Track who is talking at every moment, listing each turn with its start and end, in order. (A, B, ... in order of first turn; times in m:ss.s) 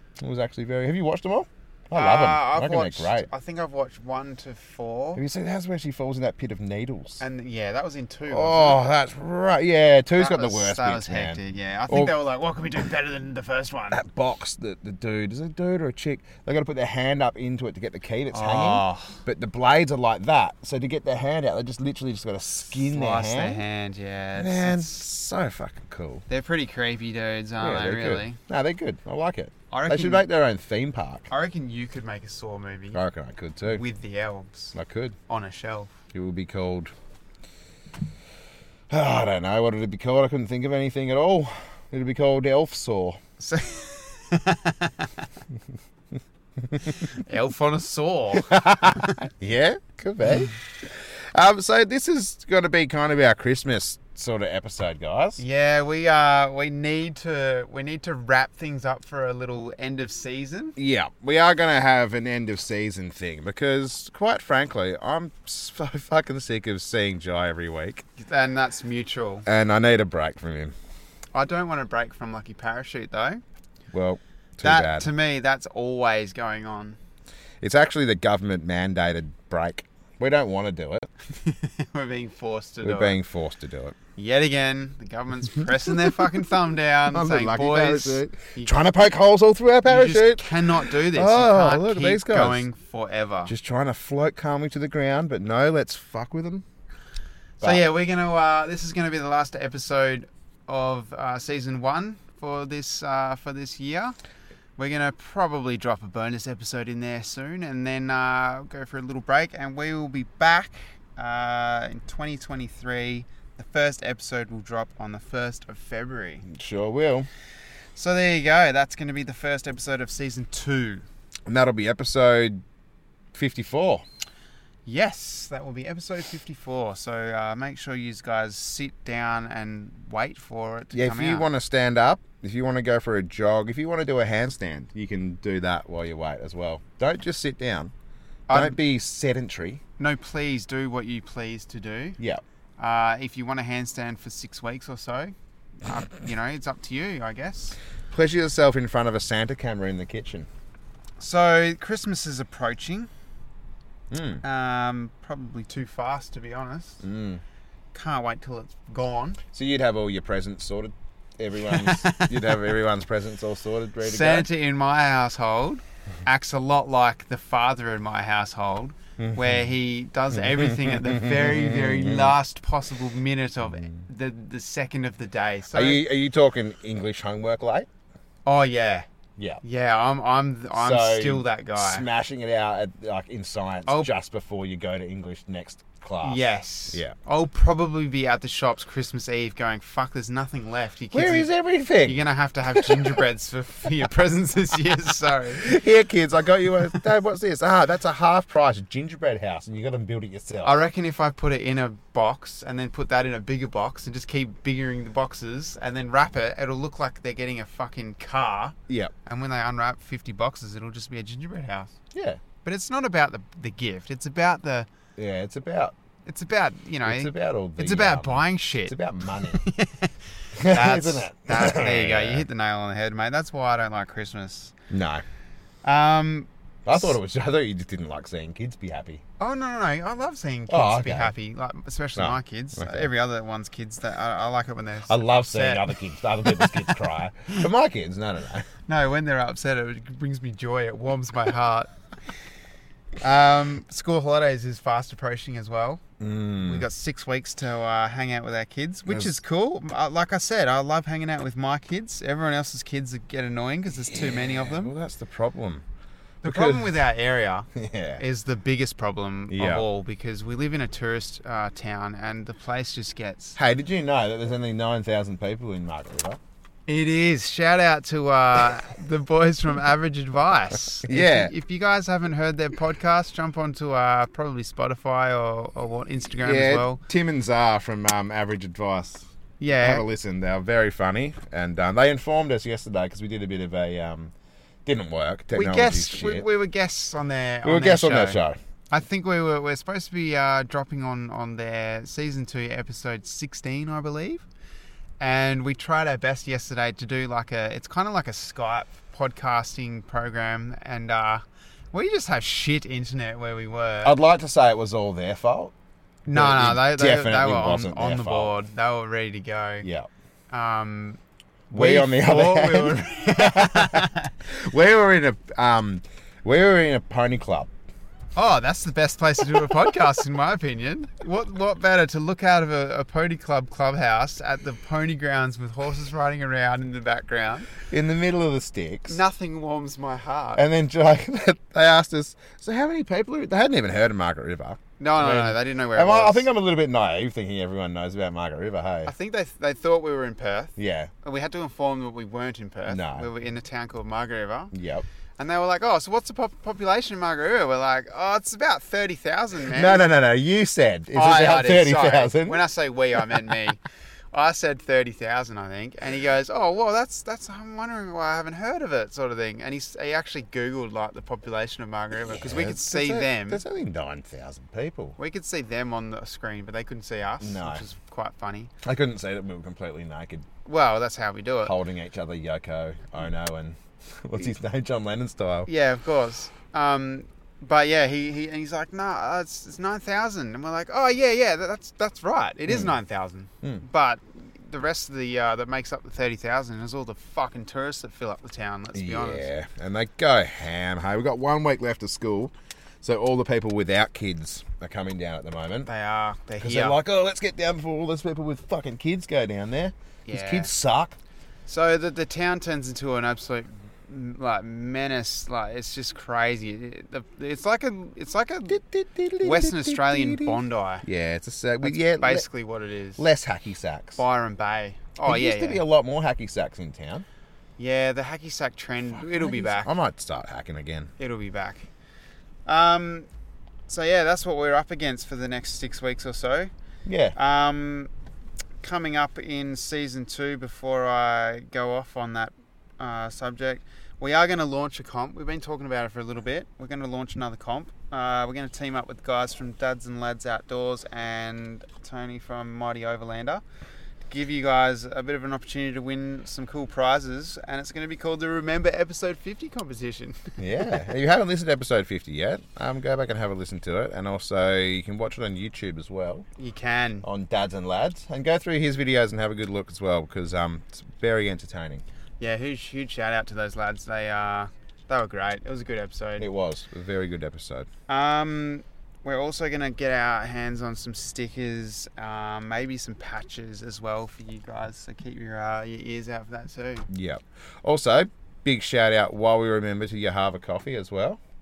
0:00.2-0:03.3 A
0:01.9-0:05.2 B
0:05.2-0:07.2 A
0:07.2-0:08.8 B
0:08.3-0:12.1 A
0:10.1-0:14.0 B
0:13.9-0:23.6 A
0:18.3-0:19.2 B
0:22.8-0:25.0 B
0:24.4-0:26.2 A
0:26.3-0:28.4 B
0:27.6-0:31.3 A
0:29.7-0:30.2 B
0:31.3-0:33.0 B
0:32.9-0:33.8 A
0:33.6-0:34.8 B
0:34.7-0:35.2 A
0:35.3-0:35.9 B
0:36.1-0:36.9 A
0:38.9-0:43.2 A
0:43.4-0:45.3 B
0:46.9-0:49.3 B
0:48.5-0:55.4 A
0:55.4-1:00.8 B
1:00.8-1:08.0 A
1:08.2-1:09.5 B
1:09.5-1:10.7 A
1:11.3-1:13.4 B
1:13.9-1:15.1 A
1:14.6-1:17.0 B
1:17.6-1:21.1 A
1:21.3-1:23.2 B
1:22.8-1:24.0 A
1:24.2-1:28.8 B
1:27.1-1:32.7 A
1:29.8-1:33.5 B
1:33.5-1:36.6 A
1:37.6-1:44.2 B
1:44.8-1:56.5 B
1:56.5-1:57.3 A
1:58.0-2:01.0 B
2:01.5-2:02.6 A
2:03.3-2:04.0 A
2:04.9-2:11.5 B
2:10.9-2:17.9 A
2:18.5-2:18.8 B
2:18.5-2:19.8 A
2:20.0-2:22.2 B
2:22.8-2:27.8 B
2:28.1-2:30.5 A
2:31.2-2:33.1 B
2:34.1-2:34.4 A
2:34.4-2:37.0 B
2:37.0-2:37.4 A
2:37.9-2:39.4 B
2:39.5-2:44.5 A
2:41.6-2:42.7 B
2:44.0-2:56.0 B
2:49.2-2:49.7 A
2:50.3-2:52.4 A
2:55.7-2:57.9 A
2:58.5-2:59.1 B
2:59.6-3:02.1 B
3:00.8-3:07.2 A
3:06.2-3:11.5 B
3:11.1-3:13.2 A
3:12.0-3:15.7 B
3:15.5-3:20.7 A
3:20.6-3:32.0 B
3:32.1-3:32.4 A
3:32.6-3:34.9 B
3:35.2-3:35.9 A
3:36.3-3:44.8 B
3:37.0-3:39.6 A
3:40.6-3:42.5 A
3:44.9-3:45.2 A
3:45.8-3:47.2 B
3:46.8-3:49.2 A
3:49.4-3:57.6 B
3:50.7-3:51.3 A
3:52.2-3:53.1 A
3:55.1-3:58.7 A
3:58.9-4:01.9 B
4:03.2-4:06.0 B
4:06.2-4:06.9 A
4:06.6-4:14.9 B
4:09.1-4:09.4 A
4:14.1-4:15.8 A
4:16.4-4:17.0 A
4:16.4-4:23.6 B
4:17.8-4:18.2 A
4:19.5-4:19.9 A
4:23.6-4:26.4 A
4:26.9-4:37.0 B
4:31.0-4:31.5 A
4:36.4-4:44.3 A
4:39.6-4:40.0 B
4:44.8-4:46.5 A
4:45.5-4:54.4 B
4:47.6-4:48.6 A
4:55.2-5:04.2 B
5:04.0-5:05.7 A
5:06.3-5:09.9 B
5:06.3-5:08.6 A
5:09.8-5:10.1 A
5:10.5-5:11.2 B
5:11.7-5:14.3 B
5:11.7-5:17.7 A
5:18.4-5:27.7 B
5:27.9-5:29.2 A
5:29.1-5:30.6 B
5:30.6-5:39.1 A
5:35.0-5:36.5 B
5:39.1-5:44.7 B
5:40.8-5:41.1 A
5:42.9-5:43.3 A
5:44.7-5:45.0 A
5:45.4-5:50.0 B
5:49.7-5:52.7 A
5:51.1-5:53.8 B
5:53.2-5:53.4 A
5:54.3-6:03.6 B
6:02.2-6:05.2 A
6:05.2-6:08.7 B
6:07.4-6:07.8 A
6:08.8-6:10.5 A
6:10.6-6:11.8 B
6:11.6-6:15.7 A
6:15.7-6:29.5 B
6:22.7-6:23.0 A
6:28.9-6:35.9 A
6:35.9-6:37.0 B
6:36.6-6:41.2 A
6:40.3-6:40.7 B
6:41.7-6:48.8 B
6:48.7-6:52.5 A
6:49.4-6:51.1 B
6:51.8-6:53.3 B
6:53.2-6:54.2 A
6:54.2-6:55.8 B
6:55.2-6:57.3 A
6:57.8-6:59.9 B
6:59.1-7:01.1 A
7:01.2-7:01.9 B
7:02.7-7:03.3 B
7:03.9-7:06.7 B
7:07.0-7:07.4 A
7:07.4-7:08.1 B
7:08.8-7:23.6 B
7:24.3-7:31.0 B
7:30.6-7:36.5 A
7:36.6-7:37.3 B
7:37.2-7:42.0 A
7:42.4-7:46.5 B
7:46.4-7:47.9 A
7:48.1-7:57.1 B
7:57.1-8:01.4 A